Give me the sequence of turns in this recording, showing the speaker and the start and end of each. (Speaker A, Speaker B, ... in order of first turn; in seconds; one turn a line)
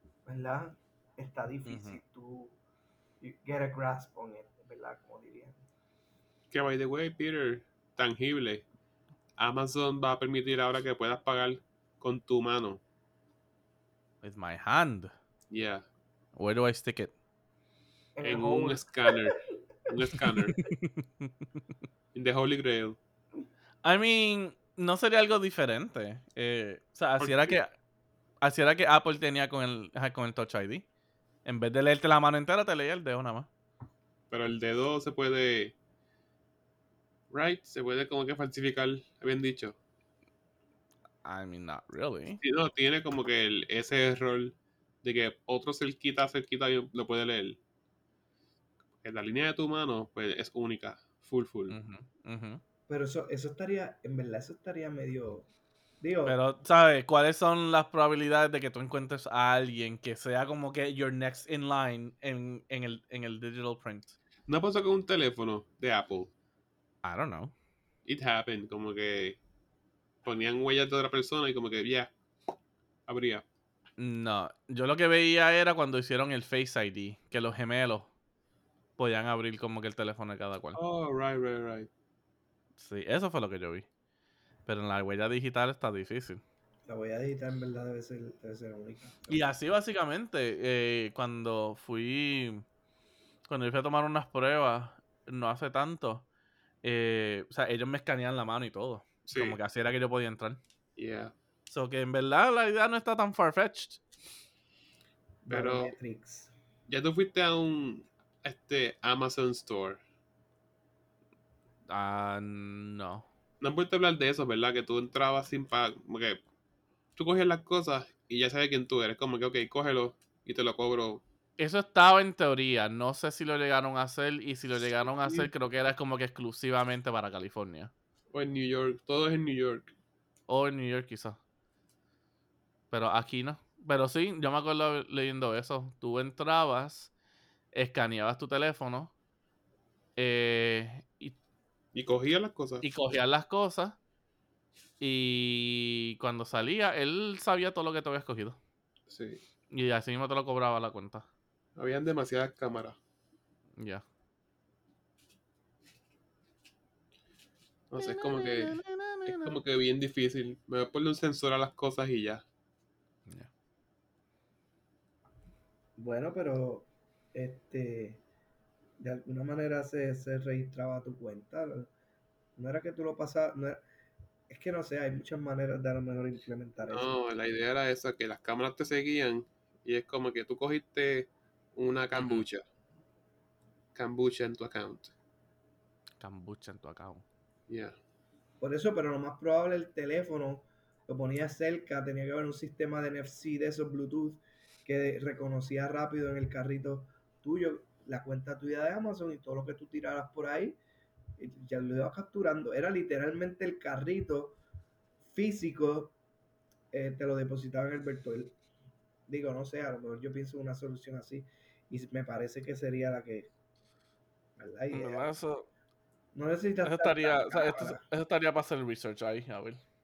Speaker A: 0.3-2.6
Speaker B: 1.7-2.0
Speaker A: 3.2-5.6
Speaker C: 6.5-8.7
Speaker C: 9.4-12.8
Speaker B: 14.2-15.1
Speaker C: 15.5-15.9
Speaker B: 16.4-17.1
Speaker A: 18.2-19.3
Speaker C: 18.2-20.6
Speaker B: 20.6-21.3
Speaker C: 22.1-23.0
Speaker B: 23.8-27.7
Speaker C: 27.2-27.6
Speaker B: 28.4-30.9
Speaker B: 31.4-33.5
Speaker C: 34.3-35.8
Speaker C: 37.3-39.8
Speaker B: 41.2-42.4
Speaker C: 42.4-47.6
Speaker C: 49.0-51.8
Speaker B: 51.7-52.6
Speaker A: 52.9-55.5
Speaker A: 56.0-56.4
Speaker B: 56.3-64.2
Speaker C: 64.5-66.3
Speaker B: 67.0-67.5
Speaker C: 68.1-69.4
Speaker C: 70.2-72.1
Speaker C: 73.1-73.4
Speaker B: 74.0-78.1
Speaker B: 79.0-80.8
Speaker C: 80.8-81.9
Speaker B: 82.8-83.9
Speaker B: 84.7-86.4
Speaker A: 86.9-89.5
Speaker B: 89.3-92.7
Speaker B: 93.5-96.3
Speaker B: 96.8-100.6
Speaker C: 99.3-99.6
Speaker C: 101.0-101.3
Speaker B: 101.7-104.0
Speaker A: 105.5-106.5
Speaker C: 105.5-106.0
Speaker C: 106.9-110.0
Speaker B: 111.9-113.3
Speaker C: 113.6-116.4
Speaker C: 117.2-121.2
Speaker B: 121.6-127.9
Speaker C: 125.0-125.5
Speaker C: 128.3-129.9
Speaker B: 130.5-131.4
Speaker B: 132.9-137.1
Speaker B: 137.7-139.1
Speaker B: 140.2-141.4
Speaker C: 141.9-142.8
Speaker B: 142.8-144.0
Speaker B: 145.0-148.6
Speaker C: 149.1-149.4
Speaker B: 149.7-151.3
Speaker C: 151.8-153.0
Speaker B: 153.8-154.0
Speaker C: 157.9-162.4
Speaker B: 158.0-159.6
Speaker A: 166.0-168.2
Speaker A: 169.0-171.9
Speaker A: 172.6-173.8
Speaker A: 174.5-177.1
Speaker C: 176.9-182.6
Speaker B: 182.2-182.5
Speaker C: 183.9-185.1
Speaker B: 186.2-187.2
Speaker C: 187.7-188.0
Speaker A: 188.6-200.8
Speaker A: 201.4-204.6
Speaker A: 205.3-206.2
Speaker A: 206.9-208.6
Speaker A: 209.3-213.5
Speaker A: 214.6-215.3
Speaker B: 214.9-215.7
Speaker A: 216.3-218.0
Speaker B: 216.8-219.8